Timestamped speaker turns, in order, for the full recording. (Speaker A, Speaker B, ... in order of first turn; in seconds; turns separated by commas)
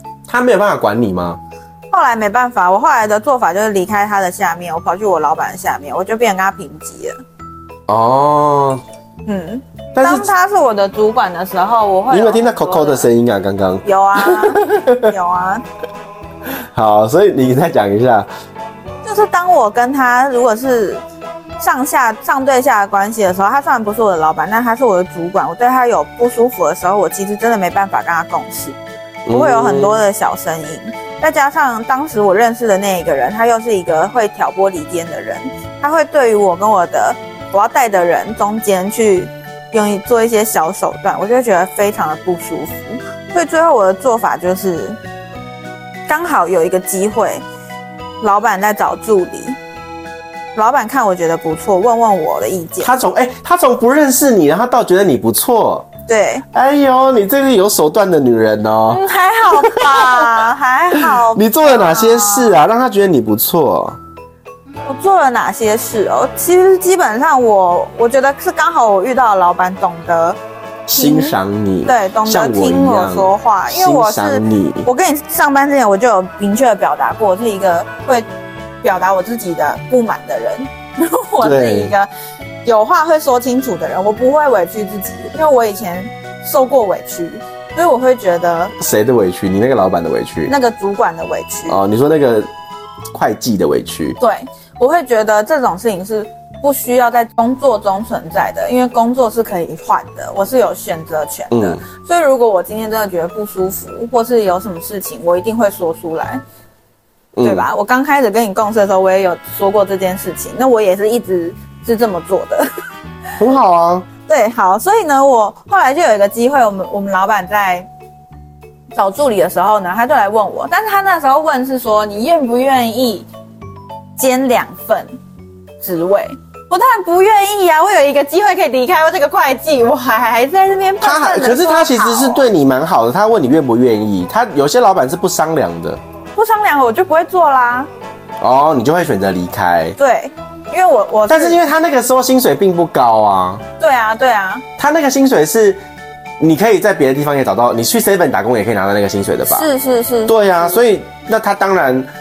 Speaker A: 0.3-1.4, Speaker B: 1.9-7.2, Speaker A: 7.9-8.8, Speaker B: 9.2-13.1, Speaker A: 9.9-10.3, Speaker A: 12.1-15.1, Speaker B: 13.8-15.6, Speaker A: 16.7-18.3, Speaker B: 19.0-21.0, Speaker B: 21.6-28.8, Speaker A: 29.2-30.0, Speaker B: 29.3-45.0, Speaker B: 46.1-47.4, Speaker B: 48.2-49.6, Speaker B: 50.5-52.9, Speaker A: 52.8-55.9, Speaker B: 56.1-56.4, Speaker A: 56.5-60.4, Speaker B: 58.9-62.6, Speaker A: 61.0-64.0, Speaker B: 64.9-70.4, Speaker A: 70.9-74.9, Speaker B: 70.9-78.3, Speaker B: 78.8-82.1, Speaker A: 81.4-81.9, Speaker B: 82.6-88.7, Speaker A: 88.8-90.5, Speaker B: 90.5-91.8, Speaker A: 91.7-92.5, Speaker A: 93.1-94.2, Speaker B: 94.2-106.4, Speaker A: 101.5-101.8, Speaker A: 107.3-107.7, Speaker B: 107.4-112.7, Speaker A: 113.4-114.0, Speaker B: 114.3-117.9, Speaker B: 118.9-123.3, Speaker B: 124.2-125.1, Speaker B: 125.8-132.5, Speaker A: 131.0-136.0, Speaker B: 136.3-137.9, Speaker A: 138.4-139.9, Speaker B: 140.0-141.6, Speaker A: 141.3-143.6, Speaker B: 143.8-144.6, Speaker A: 144.8-145.8, Speaker A: 146.4-149.7, Speaker B: 149.5-150.8, Speaker A: 150.3-152.1